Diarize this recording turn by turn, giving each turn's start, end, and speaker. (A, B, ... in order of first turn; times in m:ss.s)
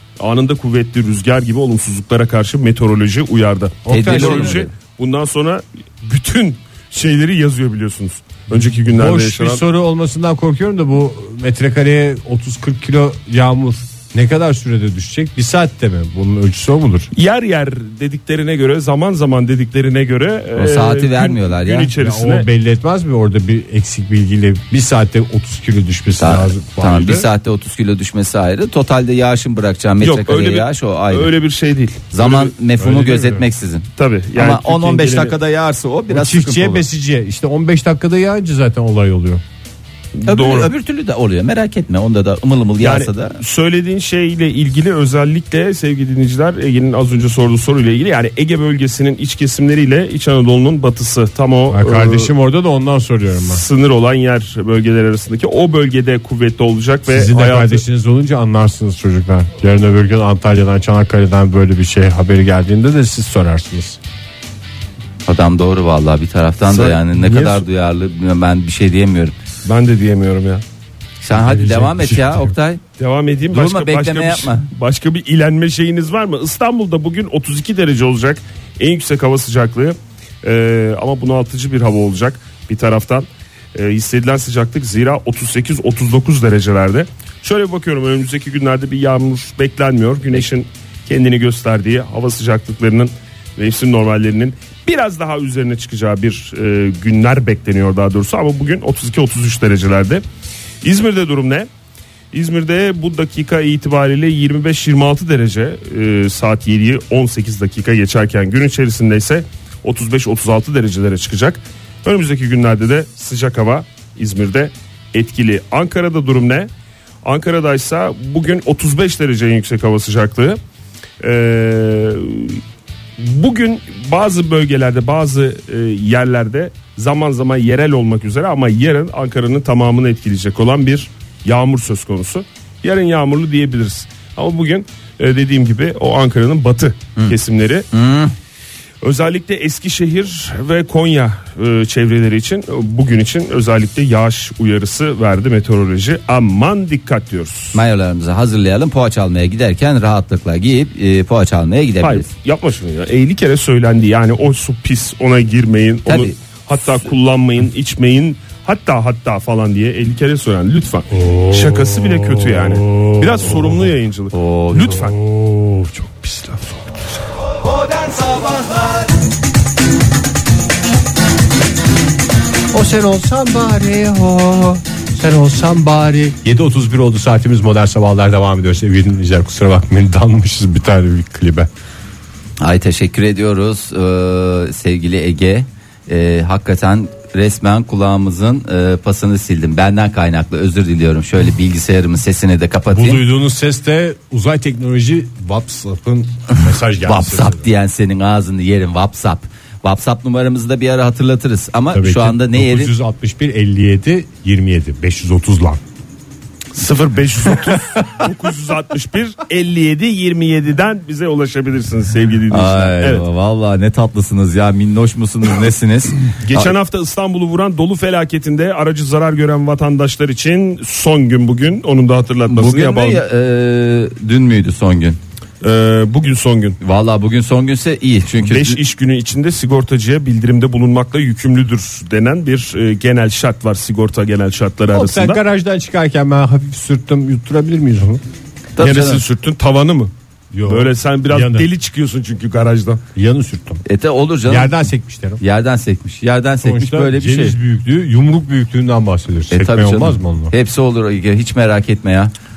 0:00.2-0:09.6 A
0:03.8-0:04.6 B
0:03.9-0:04.7 C
0:08.9-0:17.1 B
0:17.1-0:22.5 A
0:20.6-0:21.9 C
0:22.0-0:27.2 B
0:26.2-0:31.3 C
0:30.0-0:32.5 A
0:32.1-0:36.8 C
0:32.8-0:33.4 B
0:34.0-0:35.4 A
0:36.1-0:39.4 B
0:40.2-0:40.7 A
0:40.2-0:43.4 C
0:42.8-0:52.3 A
0:51.7-0:53.6 B
0:53.4-0:57.8 A
0:57.1-1:04.0 B
1:05.2-1:09.3 C
1:06.7-1:07.6 A
1:09.6-1:10.6 A
1:11.2-1:12.8 C
1:11.3-1:12.5 B
1:13.0-1:40.2 A
1:13.5-1:14.7 C
1:40.8-1:41.7 A
1:42.3-1:56.7 A
1:57.2-2:00.6 A
2:01.2-2:02.6 A
2:03.2-2:17.8 A
2:17.9-2:18.3 C
2:19.0-2:27.8 A
2:27.7-2:32.3 C
2:32.0-2:45.2 A
2:36.0-2:36.3 C
2:41.1-2:43.9 B
2:44.3-2:45.0 C
2:44.9-2:47.2 B
2:52.7-3:01.7 B
3:02.6-3:13.2 C
3:12.9-3:17.7 B
3:17.0-3:22.9 C
3:21.9-3:25.8 B
3:26.7-3:33.2 A
3:32.5-3:36.7 C
3:36.4-3:43.2 A
3:42.5-3:45.2 C
3:45.6-3:46.8 A
3:46.8-3:48.8 C
3:48.4-3:55.4 A
3:54.9-3:58.2 B
3:58.8-3:59.2 C
3:58.8-4:00.1 A
4:00.5-4:01.7 B
4:00.6-4:03.0 A
4:03.1-4:03.8 B
4:03.8-4:04.8 C
4:04.4-4:05.4 B
4:05.4-4:07.6 C
4:06.6-4:10.5 B
4:09.5-4:12.3 C